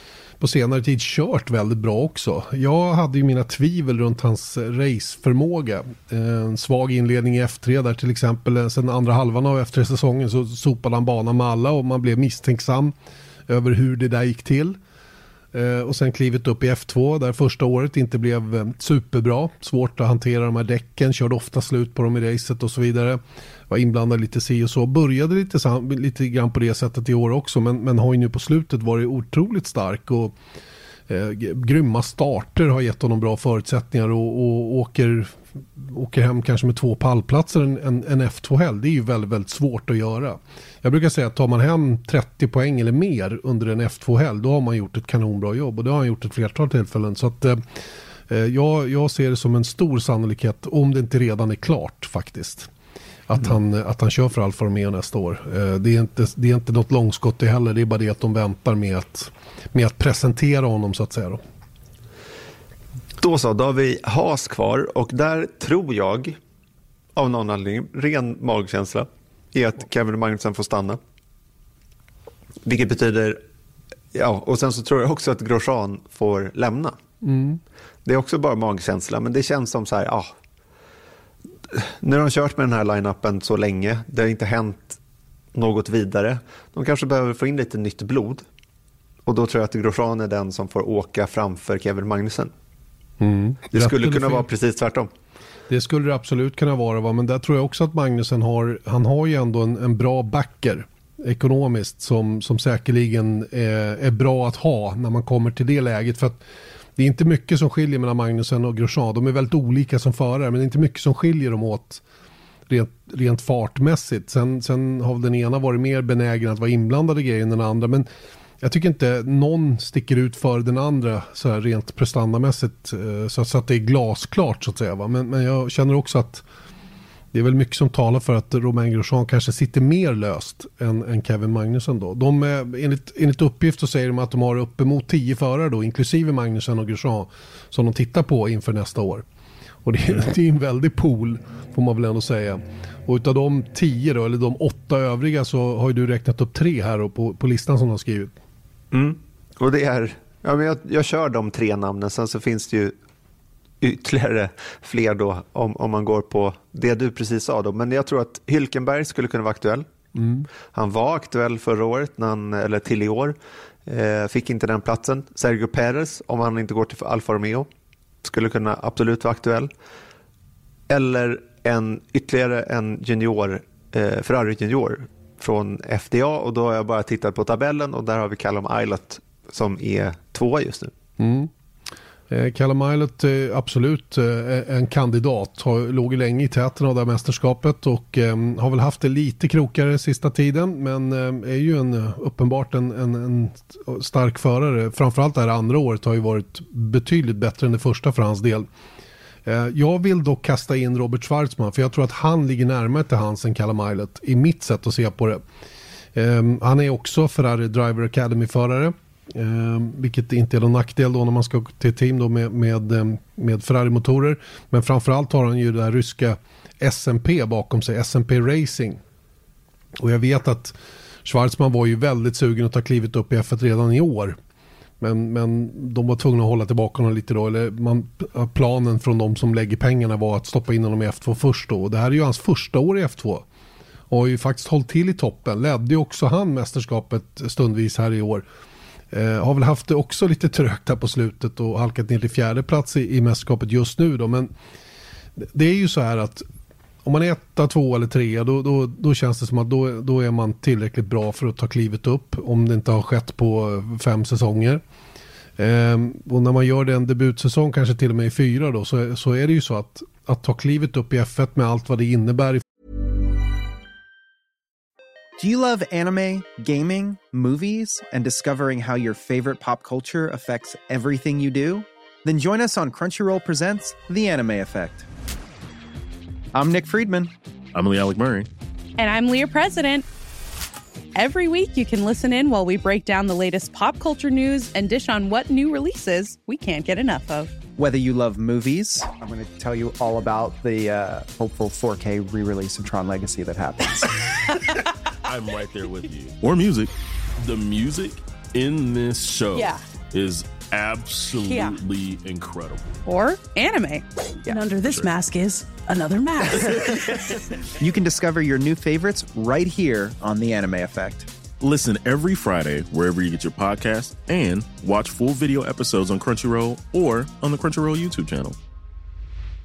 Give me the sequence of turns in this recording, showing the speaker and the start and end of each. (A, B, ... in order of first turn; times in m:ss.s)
0:00.4-0:12.9 A
0:13.5-0:14.8 A
0:15.5-0:30.3 A
0:31.1-0:47.6 A
0:48.3-0:52.7 A
0:53.3-1:01.4 A
1:03.2-1:06.4 B
1:07.2-1:11.0 B
1:12.6-1:13.4 B
1:14.1-1:17.0 B
1:17.2-1:17.6 A
1:18.0-1:20.3 B
1:21.7-1:25.0 B
1:25.6-1:28.5 B
1:29.3-1:32.5 B
1:33.2-1:34.5 A
1:33.7-1:35.1 B
1:35.7-1:46.4 A
1:47.0-1:52.0 A
1:52.7-1:58.1 A
1:58.6-2:06.4 A
2:07.3-2:19.2 A
2:19.8-2:28.3 A
2:28.9-2:33.0 B
2:33.8-2:39.9 B
2:40.2-2:40.5 A
2:40.7-2:47.7 B
2:48.2-2:49.7 B
2:50.9-3:00.9 B
3:01.2-3:01.5 A
3:02.3-3:18.7 A
3:19.5-3:25.4 A
3:26.2-3:39.0 A
3:40.0-3:44.4 A
3:45.0-3:53.4 A
3:54.1-3:58.4 A
3:59.1-4:04.5 A
4:05.4-4:06.4 A
4:07.0-4:14.8 A
4:15.6-4:22.6 A
4:25.4-4:35.1 C
4:36.5-4:37.3 C
4:37.7-4:38.5 D
4:39.0-4:40.0 E
4:41.2-4:47.5 E
4:47.8-4:54.3 C
4:55.2-5:02.9 D
5:01.5-5:01.8 E
5:03.1-5:04.0 E
5:04.5-5:07.2 F
5:04.5-5:05.1 D
5:07.8-5:11.3 C
5:11.6-5:18.6 D